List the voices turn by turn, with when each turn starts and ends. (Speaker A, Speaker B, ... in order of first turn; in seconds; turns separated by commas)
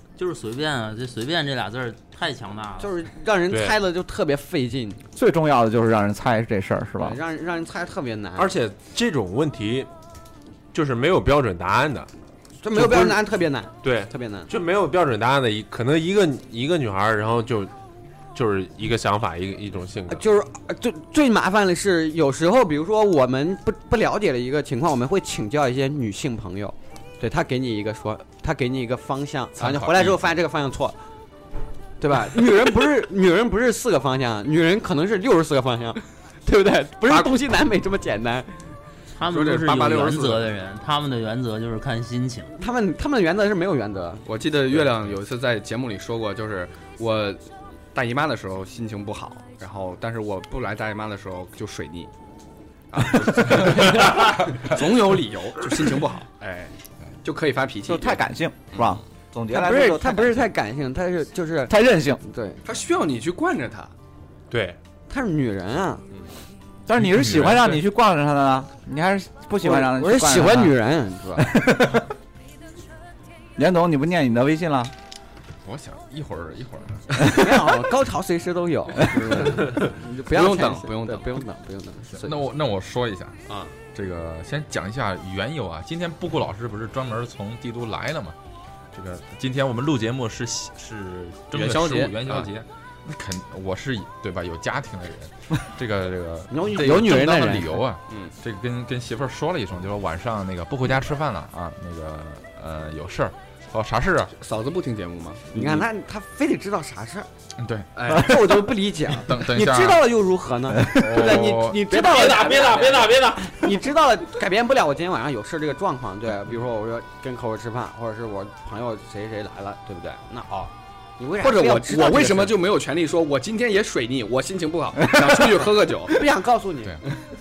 Speaker A: 0.1-3.0, Speaker B: 2.8-5.0, Speaker C: 3.5-3.8, Speaker D: 5.2-7.2, Speaker B: 7.0-8.5, Speaker C: 8.4-9.9, Speaker C: 10.7-12.1, Speaker B: 12.6-14.5, Speaker C: 12.7-13.2, Speaker C: 13.8-17.7, Speaker C: 18.3-20.2, Speaker B: 20.1-30.9, Speaker E: 29.6-30.2, Speaker B: 32.0-38.6, Speaker A: 39.1-42.5, Speaker F: 39.2-40.5, Speaker B: 42.6-44.2, Speaker F: 44.2-47.4, Speaker F: 47.9-52.1, Speaker F: 52.9-58.2, Speaker D: 57.9-60.5, Speaker B: 59.5-62.6, Speaker D: 61.7-62.2, Speaker F: 62.6-63.9, Speaker C: 64.5-64.8, Speaker B: 65.1-66.0, Speaker D: 66.9-70.8, Speaker E: 67.0-67.8, Speaker B: 69.6-71.6, Speaker D: 71.3-72.0, Speaker D: 73.6-74.9, Speaker E: 75.6-77.4, Speaker B: 77.2-82.3, Speaker F: 79.4-79.7, Speaker F: 80.3-81.4, Speaker E: 82.1-83.4, Speaker F: 83.5-83.7, Speaker E: 83.9-88.3, Speaker E: 88.9-104.3, Speaker F: 91.5-92.5, Speaker B: 96.5-97.8, Speaker F: 104.4-105.5, Speaker B: 105.5-107.3, Speaker E: 107.6-107.9, Speaker F: 108.0-108.3, Speaker B: 108.1-122.6, Speaker E: 109.2-110.1, Speaker D: 110.7-111.1, Speaker E: 110.9-112.0, Speaker C: 112.1-113.4, Speaker F: 121.4-126.2, Speaker B: 126.0-127.0